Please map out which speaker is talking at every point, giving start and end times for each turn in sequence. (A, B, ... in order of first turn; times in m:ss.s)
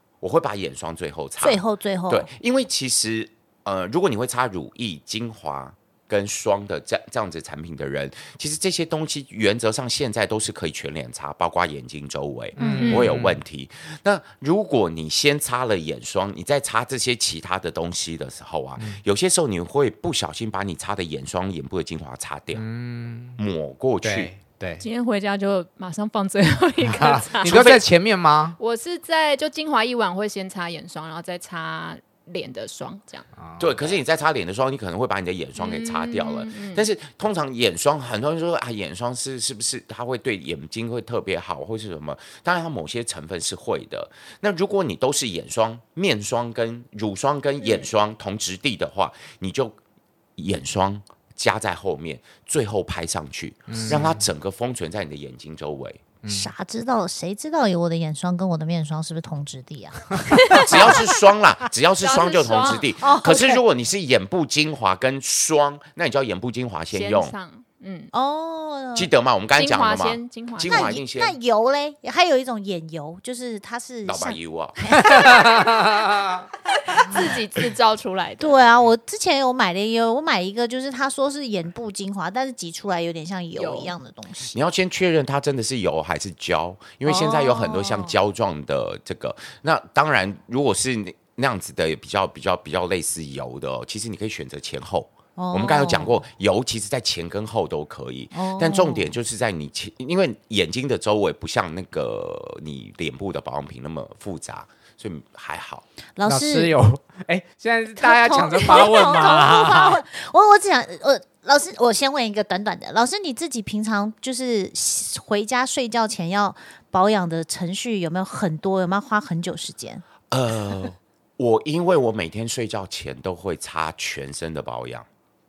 0:00.2-0:22.6 A
0:01.4-0:02.3 B
0:12.6-0:13.4 C
0:12.6-0:13.0 B
0:12.8-0:13.2 D
0:22.5-0:23.4 C
0:23.4-0:24.3 A
0:24.0-0:24.8 C
0:24.8-0:27.7 D
0:27.0-0:28.6 C
0:27.4-0:27.8 A
0:28.6-0:33.3 D
0:33.4-0:33.7 C
0:33.6-0:49.8 A
0:35.6-0:36.8 D
0:50.4-0:56.0 A
0:53.7-0:54.2 C
0:56.2-0:56.5 C
0:56.3-1:00.7 B
1:00.5-1:01.0 D
1:00.5-1:07.3 A
1:02.0-1:02.9 D
1:03.0-1:03.6 B
1:06.9-1:08.1 D
1:08.1-1:09.1 B
1:08.9-1:11.4 A
1:09.6-1:10.8 D
1:10.6-1:15.6 B
1:14.0-1:15.1 A
1:15.0-1:16.4 C
1:16.9-1:18.6 D
1:18.4-1:24.6 B
1:23.6-1:23.9 D
1:24.5-1:45.8 A
1:27.0-1:28.1 B
1:35.4-1:36.2 B
1:38.3-1:39.1 B
1:46.2-1:46.7 B
1:46.2-1:50.0 C
1:48.0-2:00.0 B
2:00.3-2:05.1 A